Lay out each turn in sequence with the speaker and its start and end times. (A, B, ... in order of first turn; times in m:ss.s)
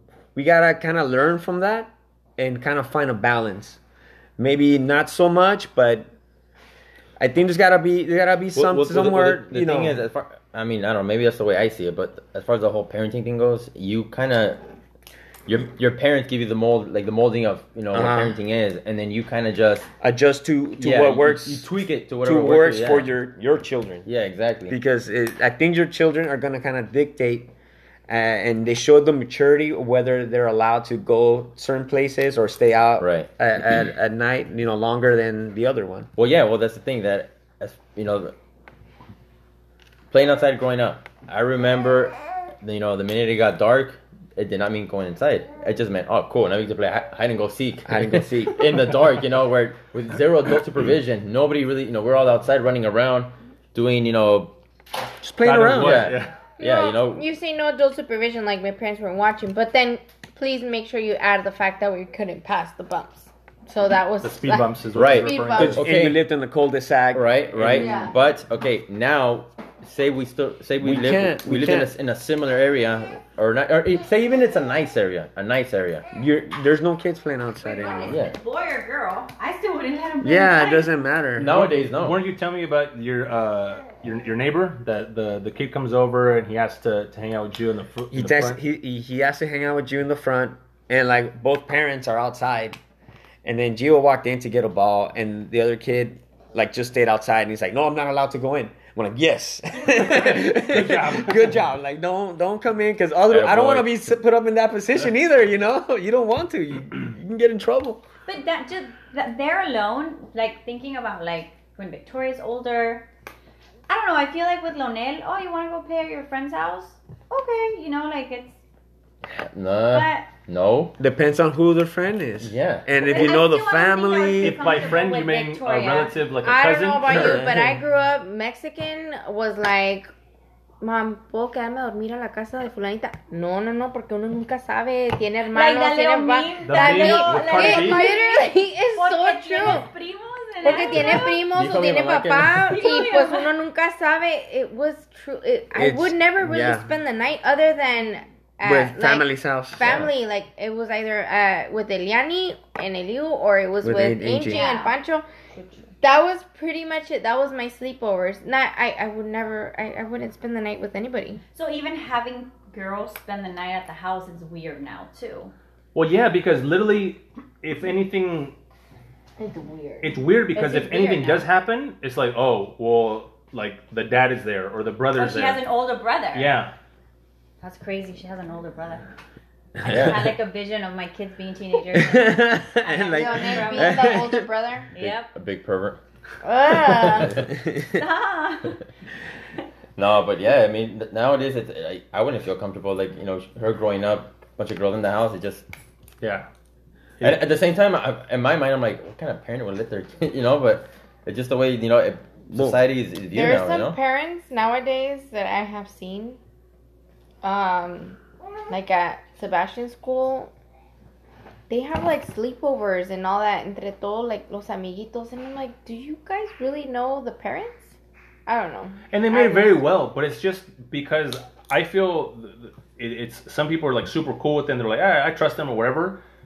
0:00.3-0:03.8 A
0:04.4-0:06.1 A
0:07.2-0:10.0 A
0:08.5-0:14.6 B
0:15.5-0:19.9 B
0:17.9-0:18.4 A
0:20.0-0:21.7 A
0:20.8-0:23.1 B
0:22.2-0:24.1 A
0:24.0-0:24.8 B
0:24.7-0:27.5 A
0:28.1-0:36.1 A
0:33.0-0:33.3 B
0:36.2-0:38.3 B
0:40.1-0:54.5 B
0:47.8-0:49.0 A
0:55.2-0:56.1 A
0:55.4-0:56.3 C
0:55.7-0:57.2 B
0:56.6-1:05.8 D
1:04.2-1:05.8 C
1:04.9-1:06.2 B
1:05.6-1:08.0 A
1:07.1-1:16.0 B
1:07.5-1:07.8 C
1:07.7-1:08.1 D
1:10.8-1:11.9 A
1:16.1-1:18.2 A
1:17.6-1:20.9 E
1:18.1-1:18.4 B
1:20.2-1:21.6 A
1:21.4-1:22.2 B
1:21.5-1:28.6 C
1:28.1-1:32.8 A
1:33.4-1:48.0 A
1:39.9-1:41.6 C
1:43.3-1:44.1 B
1:48.2-1:53.1 E
1:53.9-1:58.6 E
1:59.3-2:01.0 B
1:59.9-2:00.3 E
2:01.0-2:04.6 A
2:02.4-2:03.4 B
2:03.0-2:06.2 E
2:04.4-2:07.8 C
2:06.4-2:10.1 D
2:10.8-2:19.9 D
2:15.5-2:21.5 E
2:16.6-2:18.1 C
2:20.6-2:35.2 D
2:20.9-2:22.8 B
2:22.5-2:23.5 E
2:25.7-2:26.9 A
2:28.6-2:30.1 A
2:29.8-2:30.1 B
2:33.8-2:34.6 A
2:34.5-2:35.0 E
2:36.0-2:41.4 D
2:41.5-2:45.5 E
2:45.9-2:48.6 C
2:49.4-2:50.1 D
2:50.0-2:55.6 C
2:50.5-2:51.4 E
2:55.1-2:56.6 E
2:56.3-2:56.7 C
2:57.6-2:59.0 E
2:59.8-3:04.3 E
2:59.8-3:00.3 A
2:59.9-3:00.2 B
3:01.9-3:04.4 A
3:03.1-3:04.9 D
3:04.9-3:05.3 E
3:05.0-3:06.0 B
3:06.4-3:07.4 D
3:06.8-3:07.5 B
3:07.4-3:08.0 A
3:07.8-3:08.8 E
3:10.0-3:15.7 B
3:16.2-3:16.5 C
3:17.2-3:24.0 B
3:22.5-3:22.8 A
3:23.3-3:26.4 D
3:27.4-3:30.5 D
3:31.7-3:38.0 D
3:38.5-3:39.8 D
3:39.1-3:46.2 C